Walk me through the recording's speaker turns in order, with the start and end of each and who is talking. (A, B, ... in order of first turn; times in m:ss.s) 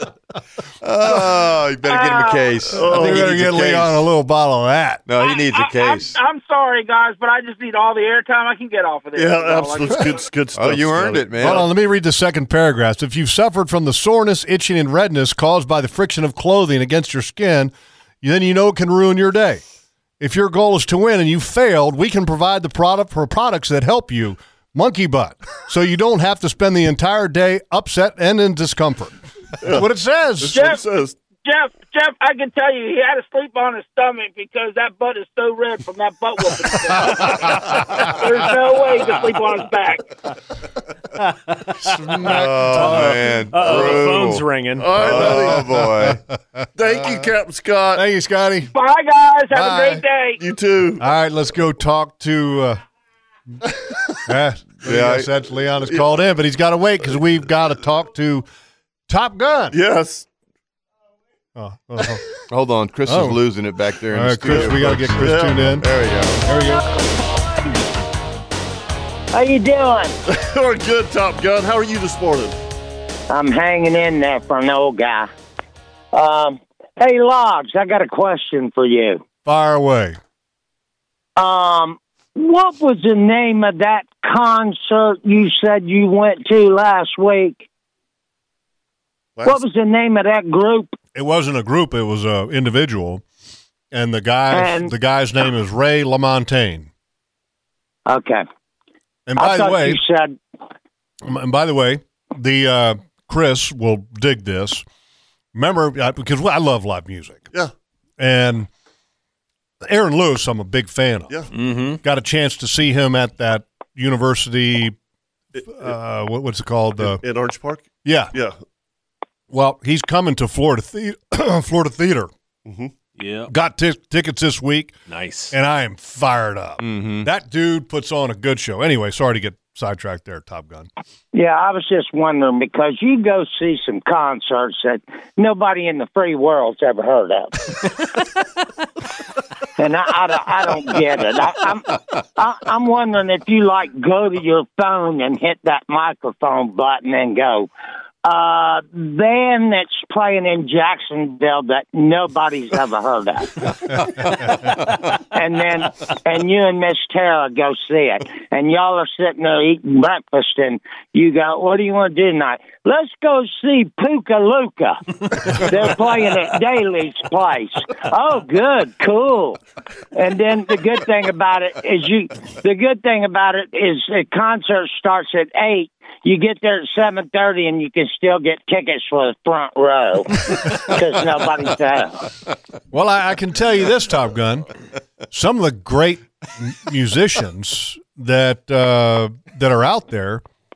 0:00.8-0:04.0 A
0:01.8-0:02.5 B
0:02.7-0:03.4 C
0:02.8-0:05.0 D
0:05.1-0:06.2 A
0:05.2-0:10.2 B
0:09.2-0:11.7 C
0:10.6-0:11.6 A
0:11.4-0:19.6 D
0:20.2-0:30.6 D
0:29.6-0:29.9 C
0:30.4-0:31.2 C
0:30.5-0:30.8 B
0:31.4-0:40.0 B
0:41.8-0:43.2 D
0:42.2-0:46.2 A
0:42.7-0:45.0 E
0:44.8-0:45.6 C
0:45.1-0:46.2 D
0:46.8-0:48.0 C
0:48.0-0:48.7 D
0:48.7-0:50.4 B
0:49.5-0:50.0 D
0:50.4-0:51.0 C
0:51.0-0:52.8 D
0:54.3-0:58.5 D
0:54.8-0:55.3 A
0:59.1-0:59.8 D
0:59.7-1:00.3 C
1:01.6-1:02.2 D
1:02.5-1:06.4 A
1:03.1-1:03.4 D
1:04.1-1:05.9 D
1:04.5-1:05.6 C
1:06.4-1:06.9 D
1:09.3-1:10.2 F
1:10.3-1:12.6 C
1:13.3-1:15.3 F
1:16.1-1:19.2 F
1:19.4-1:20.2 D
1:21.4-1:27.7 F
1:29.4-1:31.0 F
1:31.2-1:33.2 D
1:33.9-1:36.9 D
1:34.5-1:34.9 F
1:38.1-1:38.4 F
1:39.3-1:40.0 D
1:39.4-1:40.4 F
1:41.2-1:44.8 D
1:45.5-1:47.5 D
1:48.2-1:48.7 D
1:49.8-1:51.4 D
1:51.5-1:52.0 E
1:52.0-1:55.0 D
1:55.6-1:57.2 D
1:57.0-1:58.6 C
1:58.0-1:58.3 D
1:59.5-2:02.3 D
2:02.6-2:02.9 C
2:03.2-2:03.5 E
2:03.5-2:05.0 D
2:05.1-2:05.5 E
2:05.5-2:10.9 D
2:06.8-2:07.3 A
2:11.3-2:17.8 F
2:19.8-2:27.7 F
2:28.2-2:34.2 F
2:35.2-2:49.6 F
2:50.1-3:02.3 F
3:02.9-3:04.7 D
3:05.3-3:10.4 D